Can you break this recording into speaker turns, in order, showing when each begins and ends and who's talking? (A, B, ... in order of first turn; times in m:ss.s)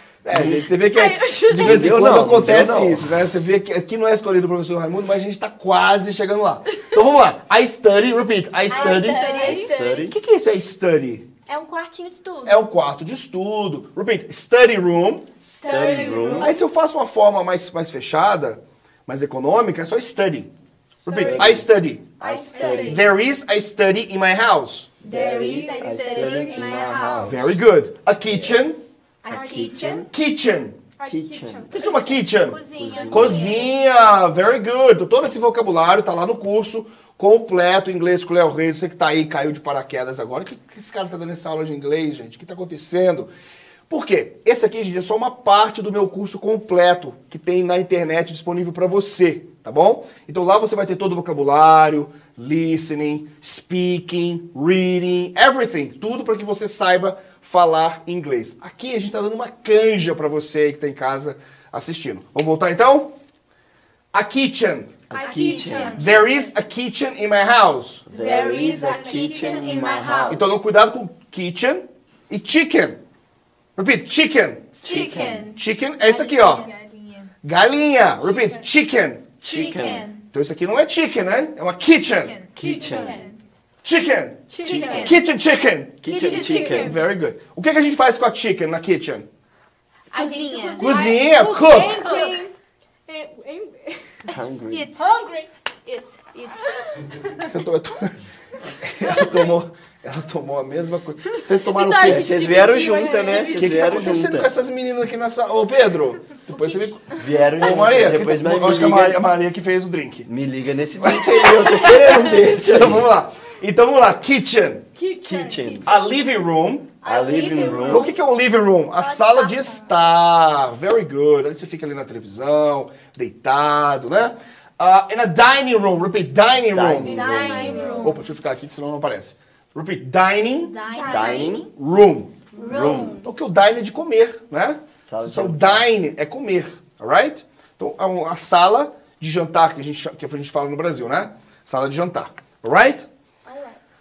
0:00.2-0:09.4 A
0:00.3-0:00.7 B
0:00.9-0:02.1 C
0:01.6-0:03.1 B
0:08.7-0:10.1 D
0:08.7-0:09.9 C
0:09.5-0:10.2 B
0:10.1-0:11.3 A
0:11.5-0:12.7 D
0:12.5-0:15.3 A
0:15.5-0:16.6 C
0:15.6-0:16.5 D
0:15.6-0:16.6 B
0:16.4-0:20.5 A
0:21.0-0:21.6 E
0:21.0-0:22.1 A
0:21.1-0:23.0 B
0:22.2-0:23.0 C
0:22.8-0:24.9 A
0:25.0-0:27.5 B
0:25.1-0:26.9 E
0:25.1-0:27.4 C
0:27.2-0:28.8 A
0:28.3-0:28.6 B
0:29.3-0:30.1 B
0:29.3-0:30.0 E
0:29.3-0:30.0 C
0:30.1-0:30.8 A
0:31.0-0:31.8 E
0:31.0-0:31.8 B
0:31.7-0:43.3 A
0:31.8-0:33.8 D
0:32.8-0:33.6 B
0:43.9-1:03.2 A
1:04.1-1:05.0 A
1:05.1-1:06.0 B
1:05.2-1:06.4 E
1:05.2-1:06.2 C
1:05.9-1:08.0 A
1:08.1-1:10.6 B
1:08.2-1:10.4 C
1:08.2-1:09.9 E
1:10.3-1:13.0 A
1:13.8-1:16.7 A
1:14.8-1:15.5 B
1:14.8-1:17.3 C
1:17.4-1:19.4 A
1:18.3-1:18.6 E
1:19.4-1:20.1 B
1:19.4-1:20.2 C
1:19.6-1:20.0 D
1:20.3-1:22.4 A
1:22.1-1:23.4 C
1:22.6-1:23.2 B
1:22.6-1:23.3 E
1:22.7-1:23.2 D
1:23.8-1:29.3 A
1:24.5-1:25.2 C
1:24.6-1:25.1 E
1:24.7-1:25.1 B
1:26.0-1:27.0 B
1:26.0-1:27.0 C
1:30.1-1:32.4 C
1:30.1-1:31.1 D
1:30.8-1:32.0 A
1:30.8-1:32.5 E
1:32.0-1:32.4 D
1:33.1-1:34.3 E
1:34.3-1:34.9 B
1:34.7-1:37.2 C
1:35.0-1:35.4 E
1:37.4-1:38.2 A
1:38.8-1:42.6 A
1:41.6-1:44.1 C
1:42.0-1:44.5 B
1:43.4-1:47.0 A
1:46.5-1:47.1 C
1:47.2-1:49.2 B
1:47.6-1:50.3 A
1:50.3-1:53.1 B
1:51.0-1:54.9 A
1:55.0-1:55.9 E
1:55.2-1:56.0 B
1:55.2-1:55.9 C
1:55.9-1:57.0 A
1:57.0-1:58.1 B
1:57.0-1:58.1 C
1:57.3-1:57.7 E
1:57.8-2:10.7 A
1:59.2-1:59.7 C
2:06.7-2:08.0 B
2:07.1-2:08.2 D
2:07.3-2:08.0 C
2:07.5-2:08.0 E
2:10.6-2:11.7 D
2:11.0-2:11.4 E
2:11.0-2:11.7 B
2:11.2-2:11.5 C
2:11.7-2:12.4 A
2:12.5-2:13.3 D
2:12.6-2:13.2 B
2:13.2-2:23.1 A
2:15.1-2:15.9 B
2:23.5-2:23.8 E